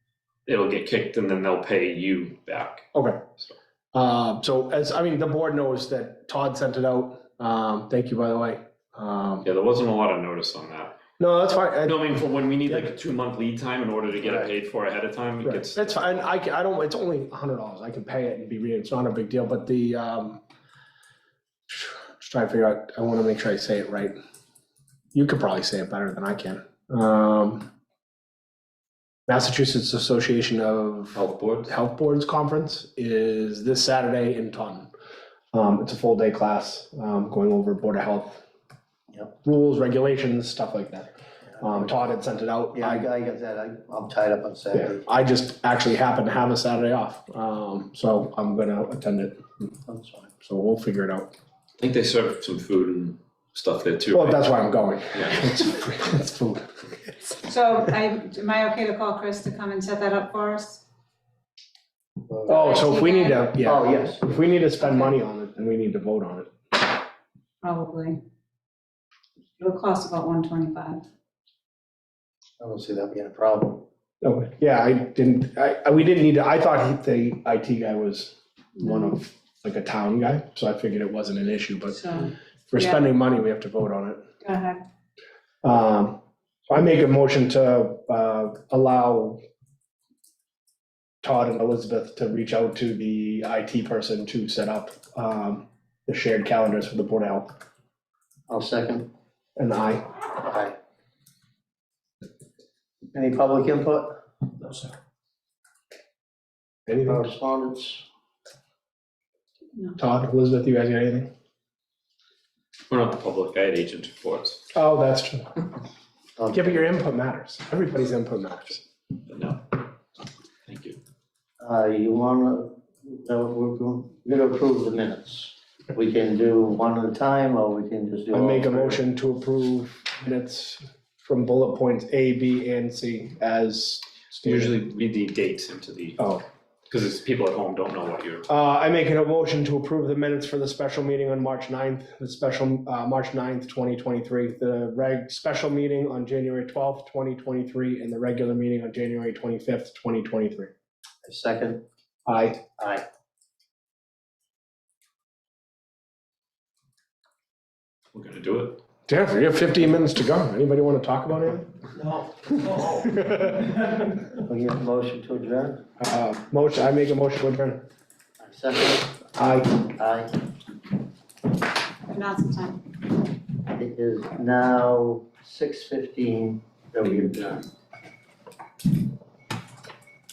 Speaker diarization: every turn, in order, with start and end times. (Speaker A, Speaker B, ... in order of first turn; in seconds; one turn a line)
Speaker A: 0.5-2.9
Speaker B: 2.9-3.2
Speaker B: 3.9-9.5
Speaker A: 9.4-11.0
Speaker B: 11.2-12.0
Speaker A: 11.8-16.2
Speaker B: 15.4-20.4
Speaker B: 21.7-24.1
Speaker B: 25.1-27.7
Speaker B: 29.3-34.9
Speaker A: 31.1-31.7
Speaker B: 35.5-38.4
Speaker B: 39.4-43.0
Speaker C: 42.7-45.0
Speaker B: 44.7-49.4
Speaker C: 49.9-50.3
Speaker B: 50.4-51.3
Speaker A: 51.8-54.5
Speaker B: 54.1-56.6
Speaker A: 55.1-55.4
Speaker D: 57.3-60.8
Speaker C: 62.3-62.6
Speaker B: 62.5-66.5
Speaker D: 62.5-63.4
Speaker C: 63.6-64.3
Speaker D: 67.6-68.2
Speaker D: 69.6-71.0
Speaker C: 72.6-73.8
Speaker B: 74.2-84.2
Speaker D: 78.8-79.1
Speaker D: 82.0-83.1
Speaker D: 84.4-84.8
Speaker B: 85.6-86.2
Speaker B: 86.7-89.4
Speaker B: 91.2-97.5
Speaker C: 98.5-99.1
Speaker B: 99.6-100.0
Speaker C: 100.4-100.7
Speaker C: 103.1-104.8
Speaker B: 106.9-107.3
Speaker C: 107.0-108.0
Speaker B: 110.0-111.3
Speaker A: 112.9-114.7
Speaker B: 114.7-115.6
Speaker C: 116.4-116.9
Speaker B: 116.5-118.8
Speaker A: 119.3-119.8
Speaker A: 120.7-121.0
Speaker C: 121.6-129.0
Speaker B: 128.3-134.8
Speaker A: 134.4-136.2
Speaker B: 136.2-136.4
Speaker A: 136.9-138.5
Speaker B: 138.5-150.7
Speaker C: 151.2-151.8
Speaker B: 152.2-152.6
Speaker C: 152.8-153.0
Speaker A: 158.1-158.8
Speaker B: 159.1-161.7
Speaker B: 162.7-163.7
Speaker C: 164.4-165.8
Speaker B: 166.0-167.8
Speaker C: 168.4-170.3
Speaker B: 169.3-169.8
Speaker D: 172.1-172.8
Speaker C: 173.6-177.6